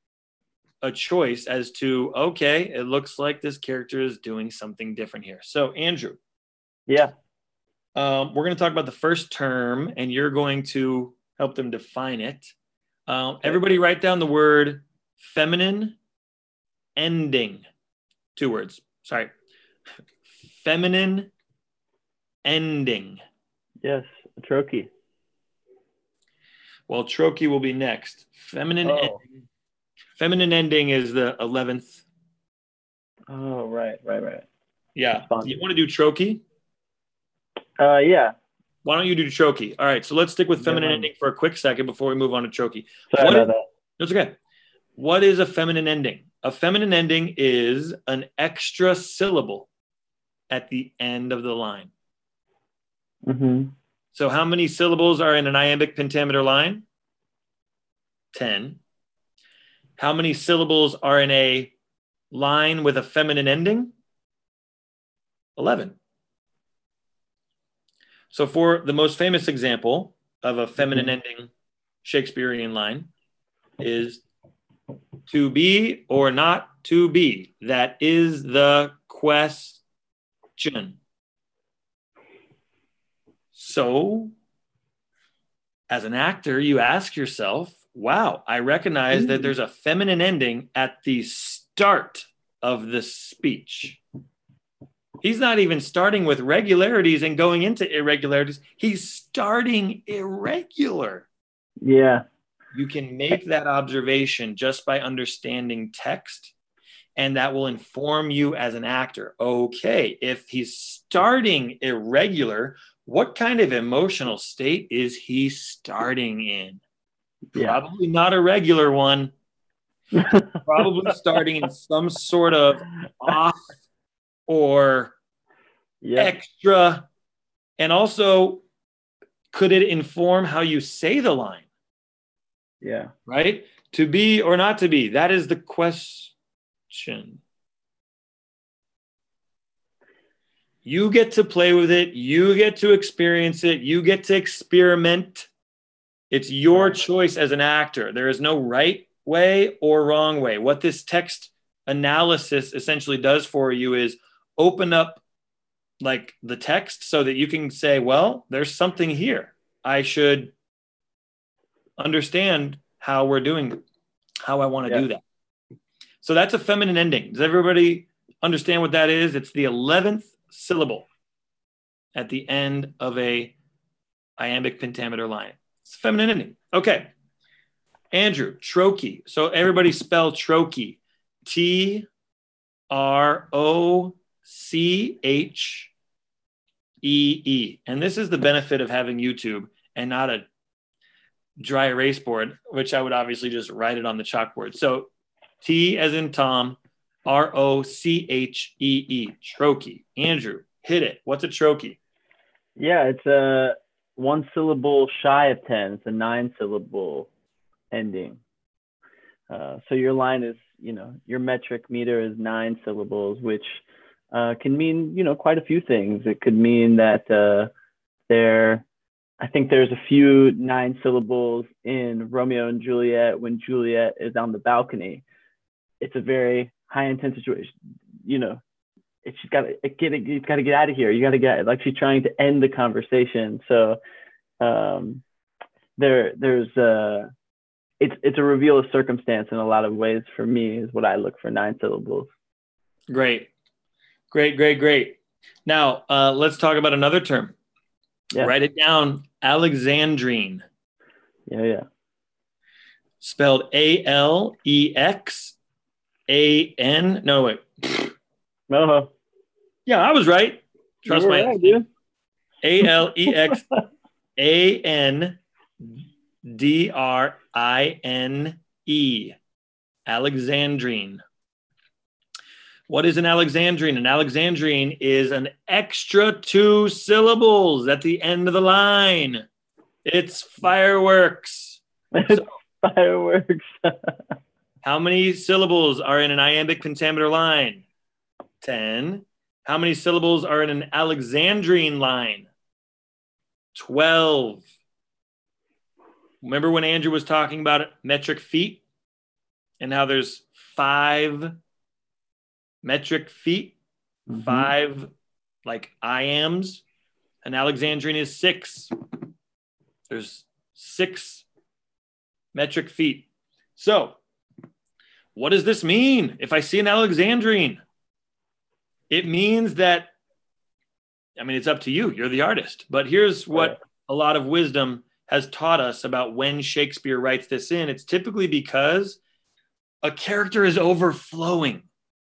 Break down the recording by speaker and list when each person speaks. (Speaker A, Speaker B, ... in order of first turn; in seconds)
Speaker A: 0.8-6.2, 8.0-12.5, 13.1-16.0, 16.9-17.6, 18.4-19.3, 20.3-21.3, 22.4-23.2, 26.9-29.2, 30.2-32.0, 35.0-36.4, 38.8-44.4, 45.0-49.7, 50.5-51.9, 54.1-56.8, 58.3-58.8, 60.0-61.7, 62.3-63.9, 65.5-66.0, 68.3-71.5, 72.0-73.1, 73.8-74.2, 75.3-79.8, 80.6-81.0, 83.5-84.3, 85.9-94.0, 95.2-101.3, 102.7-106.5, 107.2-116.8, 117.5-119.3, 120.5-123.8, 124.5-125.1, 126.2-127.1, 127.8-128.6, 129.5-131.7, 133.2-136.3, 136.9-137.4, 140.8-145.5, 146.3-155.2, 156.0-160.5, 162.0-163.8, 164.4-165.2, 166.2-171.1, 172.1-173.5, 174.4-177.1, 178.1-182.1, 182.9-185.9, 187.0-190.4, 191.6-195.1, 195.6-202.0, 243.1-243.5, 244.3-247.5, 248.4-250.6, 253.2-255.6, 256.3-258.1, 259.9-261.8, 262.6-263.6, 264.4-269.4, 270.1-271.2, 272.9-279.4, 280.0-282.5, 284.8-287.8, 288.6-292.5, 293.7-294.6, 296.4-298.8, 299.8-301.5, 302.8-303.8, 304.3-305.1, 305.6-306.8, 307.4-308.9, 310.1-311.4, 312.5-314.2, 315.3-317.8, 319.1-320.1, 321.4-329.2, 330.0-331.9
Speaker B: 6.9-7.1, 23.8-24.9, 28.8-29.2, 33.3-34.5, 35.2-35.6, 37.8-38.3, 40.6-41.1, 43.1-43.6, 53.2-53.7, 70.8-71.1, 89.1-89.5, 101.8-102.2, 117.5-117.8, 120.1-120.6, 126.0-126.3, 132.8-133.1, 146.7-147.0, 202.8-207.3, 207.9-208.4, 209.5-217.7, 218.3-218.8, 219.4-225.2, 226.0-228.6, 229.2-234.0, 234.6-235.2, 236.0-237.3, 238.0-242.3, 251.5-251.8, 258.7-259.1, 261.1-261.9, 263.2-263.6, 282.1-284.2, 304.3-304.7